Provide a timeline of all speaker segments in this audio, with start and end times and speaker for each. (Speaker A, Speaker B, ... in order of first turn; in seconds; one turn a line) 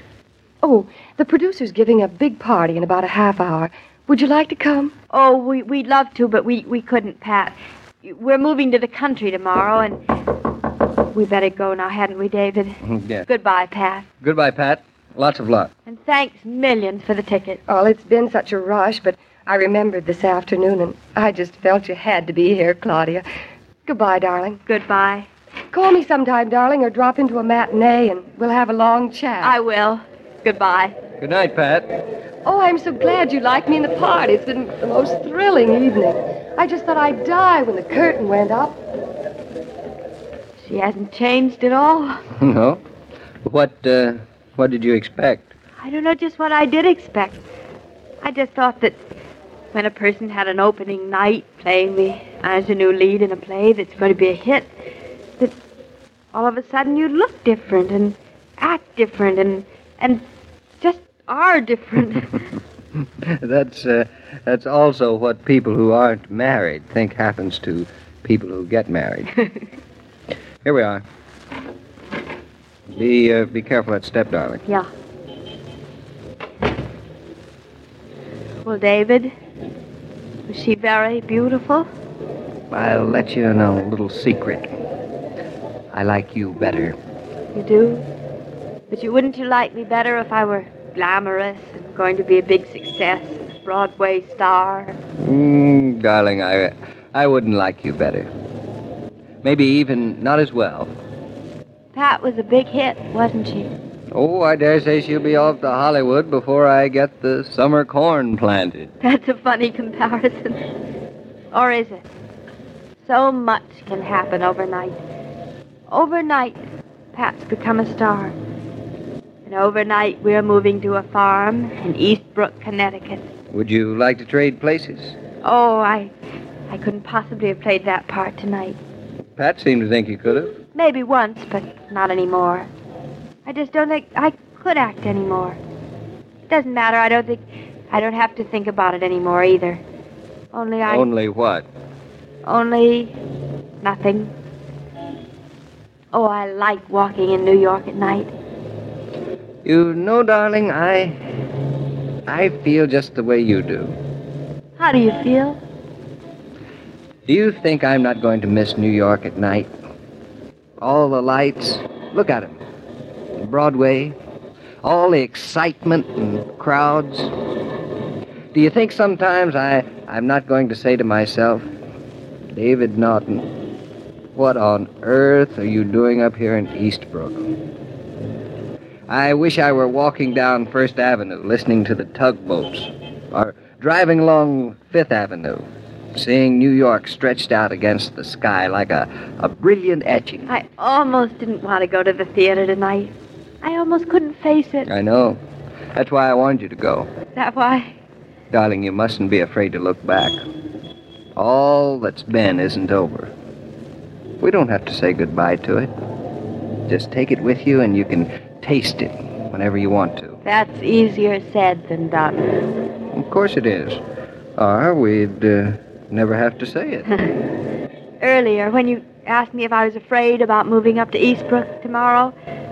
Speaker A: 0.6-4.9
Speaker B: 5.1-10.0
Speaker B: 11.1-12.7
Speaker C: 12.8-13.2
Speaker B: 13.3-14.0
Speaker C: 14.2-15.7
Speaker B: 15.9-17.6
Speaker A: 17.7-23.2
Speaker A: 23.9-24.6
Speaker B: 24.7-25.3
Speaker A: 25.7-29.5
Speaker B: 29.4-30.9
Speaker C: 31.2-31.9
Speaker A: 32.4-38.8
Speaker B: 40.6-42.2
Speaker C: 42.3-42.8
Speaker C: 43.4-45.5
Speaker B: 45.8-47.4
Speaker B: 48.2-49.0
Speaker B: 49.7-54.7
Speaker B: 56.3-60.2
Speaker B: 60.8-62.4
Speaker C: 63.2-69.3
Speaker C: 70.6-71.0
Speaker C: 72.9-74.6
Speaker B: 78.7-79.3
Speaker B: 80.5-81.9
Speaker C: 82.7-84.7
Speaker C: 85.9-87.0
Speaker B: 87.5-88.0
Speaker B: 88.9-95.0
Speaker C: 95.2-98.3
Speaker C: 99.4-100.9
Speaker B: 101.9-103.7
Speaker C: 104.1-108.9
Speaker B: 109.0-110.6
Speaker B: 111.5-112.0
Speaker B: 113.0-115.0
Speaker B: 115.9-116.6
Speaker B: 117.1-118.3
Speaker B: 119.5-123.2
Speaker C: 123.5-125.2
Speaker B: 125.4-126.1
Speaker B: 126.7-128.8
Speaker C: 129.4-130.6
Speaker B: 130.7-132.7
Speaker B: 133.4-135.6
Speaker B: 136.5-139.8
Speaker B: 140.5-141.0
Speaker C: 140.8-141.7
Speaker B: 142.4-143.1
Speaker B: 143.8-144.3
Speaker B: 146.1-148.3
Speaker C: 149.6-151.2
Speaker C: 152.3-154.0
Speaker B: 154.8-155.6
Speaker C: 157.2-159.7
Speaker C: 160.8-162.6
Speaker C: 163.4-164.2
Speaker C: 164.8-167.3
Speaker C: 168.5-171.7
Speaker C: 172.5-173.7
Speaker C: 174.3-177.6
Speaker C: 179.1-190.5
Speaker B: 190.5-194.9
Speaker C: 194.9-195.4
Speaker C: 195.9-197.1
Speaker B: 197.3-197.9
Speaker C: 198.5-200.4
Speaker C: 201.3-203.3
Speaker C: 204.4-205.9
Speaker C: 206.9-210.4
Speaker B: 210.4-212.6
Speaker C: 213.1-214.0
Speaker C: 214.6-217.1
Speaker B: 218.2-222.3